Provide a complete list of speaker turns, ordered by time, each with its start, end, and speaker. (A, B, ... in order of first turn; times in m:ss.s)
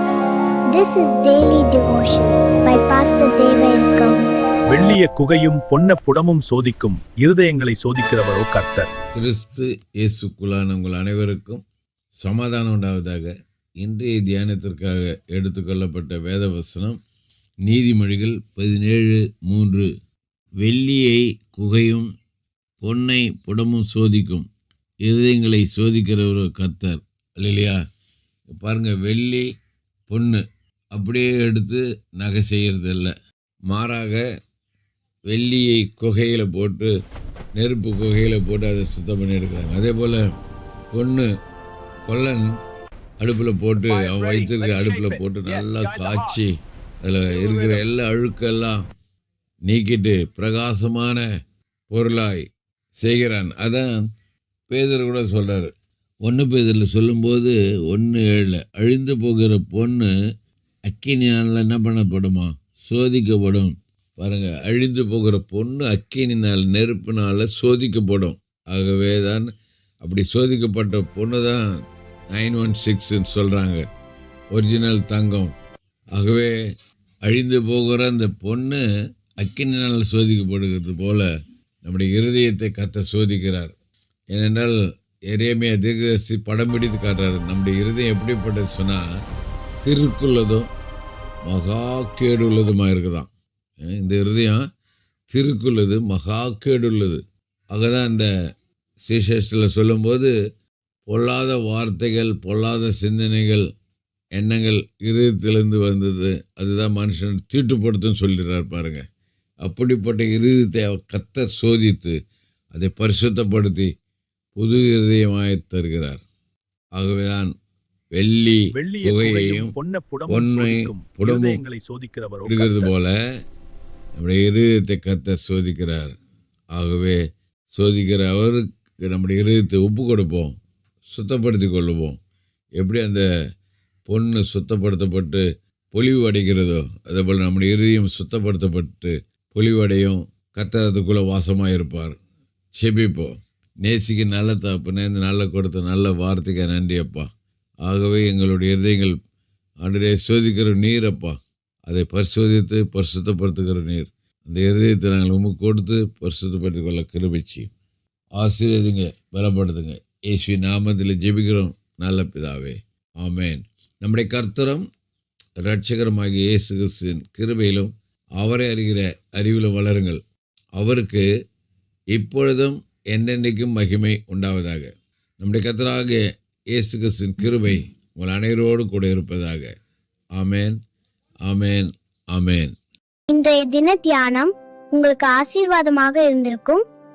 0:00.7-0:04.2 A
0:04.7-0:08.9 B
0:09.2-0:11.6 C
0:12.2-0:13.3 C
0:13.8-0:16.9 C
0:17.6-0:19.9 C
0:20.6-0:22.0 C
0:22.8-0:24.4 C
0:25.0-0:27.8 C
0:28.6-0:29.4 C
0:30.1-0:30.4 C
0:30.9-0:33.1 C
0:33.7-0:34.2 C
0:35.3-0:36.9 C
0:37.6-0:40.2 C
0:40.9-0:41.3 C
0:42.1-0:42.4 C
0:43.2-0:48.8 C
0:43.8-0:46.4 B
0:47.3-0:47.8 B
0:49.7-0:51.2 C
0:51.9-0:52.4 C
0:53.0-0:54.0 C
0:54.7-0:55.7 C
0:56.2-1:00.1 C
1:00.9-1:09.5 C
1:10.0-1:11.6 C
1:12.3-1:13.8 C
1:14.5-1:15.5 C
1:16.2-1:16.5 C
1:17.2-1:18.8 C
1:19.4-1:21.3 C
1:21.8-1:23.7 C
1:24.3-1:24.7 C
1:25.3-1:29.0 C
1:29.8-1:30.7 C
1:31.5-1:33.3 C
1:33.8-1:34.6 C
1:35.3-1:37.2 C
1:37.7-1:38.3 C
1:39.0-1:40.3 C
1:41.1-1:43.6 C
1:44.4-1:49.0 C
1:49.6-1:52.1 C
1:52.7-1:53.9 C
1:54.6-1:56.2 C
1:57.0-1:57.5 C
1:58.1-1:59.7 C
1:58.7-2:02.9 B
2:00.3-2:01.6 C
2:02.4-2:03.1 C
2:04.2-2:06.1 C
2:06.7-2:07.2 C
2:07.7-2:10.5 C
2:11.1-2:12.1 C
2:12.8-2:13.2 C
2:14.1-2:15.4 C
2:15.9-2:22.1 C
2:22.7-2:23.3 C
2:23.8-2:27.2 C
2:27.8-2:29.1 C
2:29.8-2:31.3 C
2:31.9-2:37.7 C
2:38.4-2:44.8 C
2:45.6-2:50.2 C
2:50.8-2:51.2 C
2:52.1-2:56.2 C
2:56.7-2:59.7 C
3:00.4-3:00.7 C
3:01.5-3:02.7 C
3:03.3-3:06.8 A